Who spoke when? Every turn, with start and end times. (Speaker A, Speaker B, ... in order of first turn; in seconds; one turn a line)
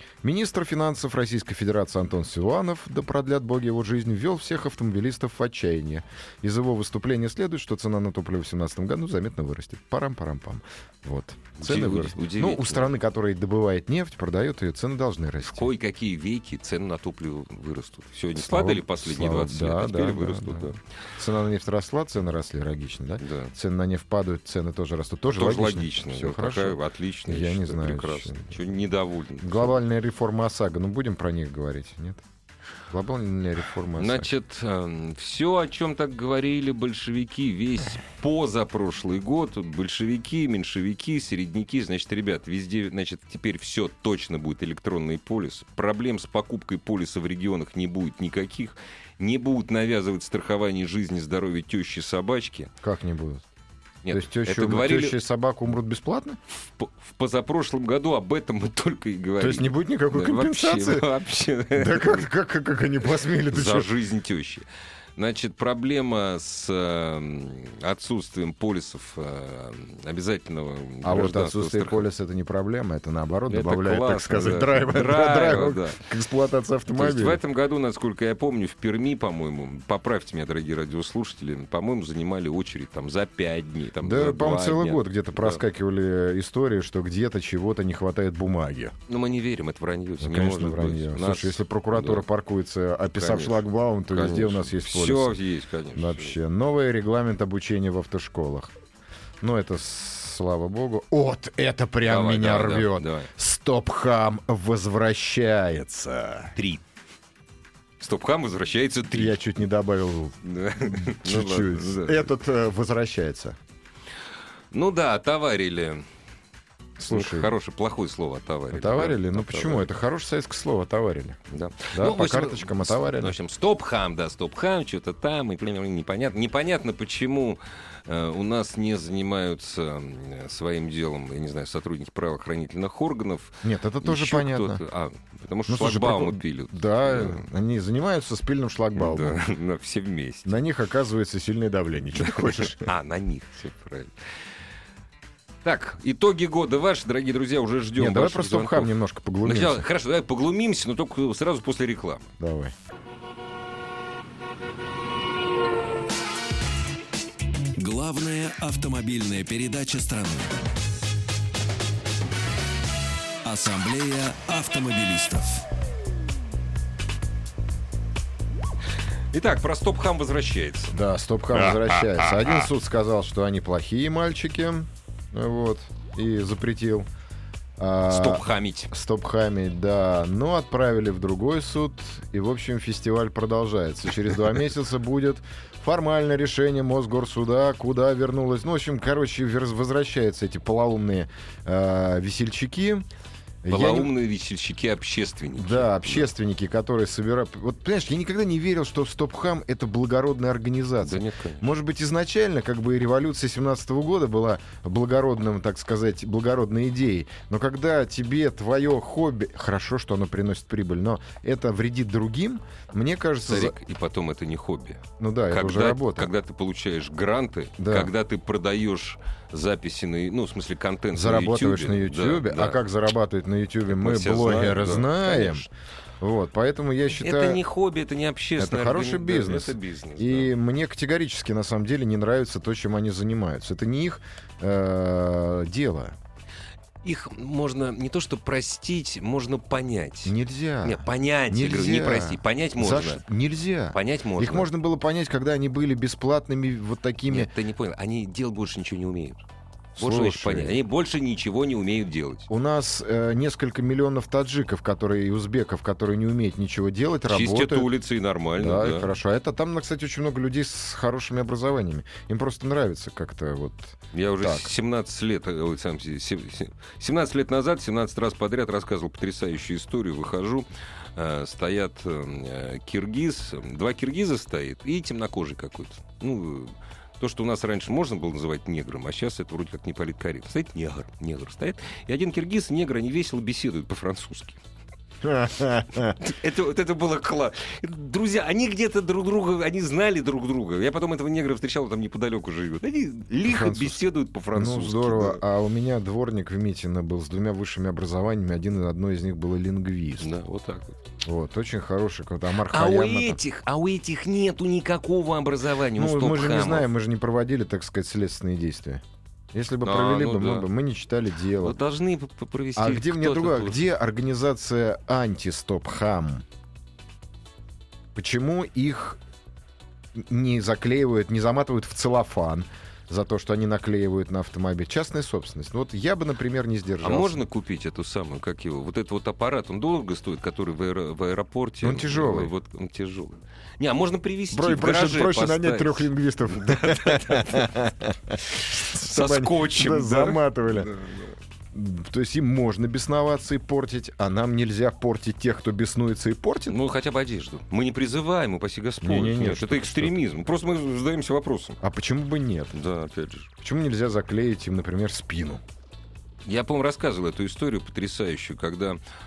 Speaker A: 0.2-15.7
Speaker B: 11.6-12.9
Speaker B: 15.4-20.8
Speaker A: 18.4-28.6
Speaker B: 23.2-23.5
Speaker B: 25.3-29.8
Speaker A: 29.4-32.2
Speaker A: 32.9-34.3
Speaker B: 34.0-52.7
Speaker A: 52.8-53.4
Speaker B: 54.0-55.2
Speaker A: 54.1-56.4
Speaker B: 56.8-62.3
Speaker A: 59.4-61.1
Speaker A: 61.7-63.9
Speaker B: 63.5-64.6
Speaker B: 65.2-72.1
Speaker A: 71.0-77.4
Speaker B: 73.5-76.0
Speaker B: 76.9-85.6
Speaker A: 84.0-88.9
Speaker B: 89.1-92.2
Speaker A: 90.2-95.4
Speaker B: 93.1-96.3
Speaker A: 95.9-98.7
Speaker A: 99.4-106.5
Speaker B: 102.0-103.3
Speaker B: 106.5-106.8
Speaker B: 108.0-109.4
Speaker A: 109.1-113.6
Speaker B: 110.4-112.3
Speaker B: 114.7-116.0
Speaker A: 117.0-117.5
Speaker B: 117.1-119.9
Speaker A: 118.7-121.4
Speaker B: 121.5-137.4
Speaker A: 121.9-123.3
Speaker A: 133.6-134.8
Speaker A: 135.7-139.4
Speaker B: 138.9-140.6
Speaker A: 140.4-142.8
Speaker B: 142.2-144.1
Speaker B: 145.6-148.9
Speaker A: 147.9-149.9
Speaker B: 149.4-152.3
Speaker A: 152.4-152.7
Speaker C: 157.8-160.6
Speaker C: 163.4-165.6
Speaker B: 169.3-170.9
Speaker A: 170.9-177.1
Speaker A: 177.8-193.1
Speaker B: 178.1-178.9
Speaker A: 193.6-194.1
Speaker B: 193.7-196.3
Speaker A: 195.6-213.8
Speaker B: 201.0-201.7
Speaker B: 213.4-222.8
Speaker A: 215.2-216.3
Speaker A: 217.8-218.1
Speaker A: 221.1-225.7
Speaker B: 223.9-225.7
Speaker A: 226.2-227.6
Speaker B: 227.1-230.5
Speaker A: 228.6-236.2
Speaker B: 237.0-243.2
Speaker A: 240.2-247.5
Speaker B: 243.9-244.7
Speaker B: 247.3-249.4
Speaker A: 249.9-250.8
Speaker B: 250.0-252.5
Speaker A: 252.5-257.9
Speaker B: 257.3-259.1
Speaker A: 258.6-264.7
Speaker B: 264.1-284.6
Speaker A: 285.2-286.2
Speaker B: 286.2-295.4
Speaker A: 293.4-300.3
Speaker B: 300.2-301.0
Speaker A: 301.2-303.4
Speaker B: 302.7-306.9
Speaker A: 305.9-311.8
Speaker B: 309.8-310.7
Speaker B: 311.6-313.8
Speaker A: 312.8-316.4
Speaker A: 318.1-319.2
Speaker A: 320.1-327.4
Speaker B: 327.0-337.7
Speaker A: 331.8-332.5
Speaker A: 334.5-340.9
Speaker B: 338.5-341.3
Speaker A: 341.7-346.8
Speaker B: 346.7-351.8
Speaker A: 349.0-350.2
Speaker A: 351.8-352.8
Speaker B: 352.7-353.5
Speaker A: 353.6-355.6
Speaker B: 356.4-359.0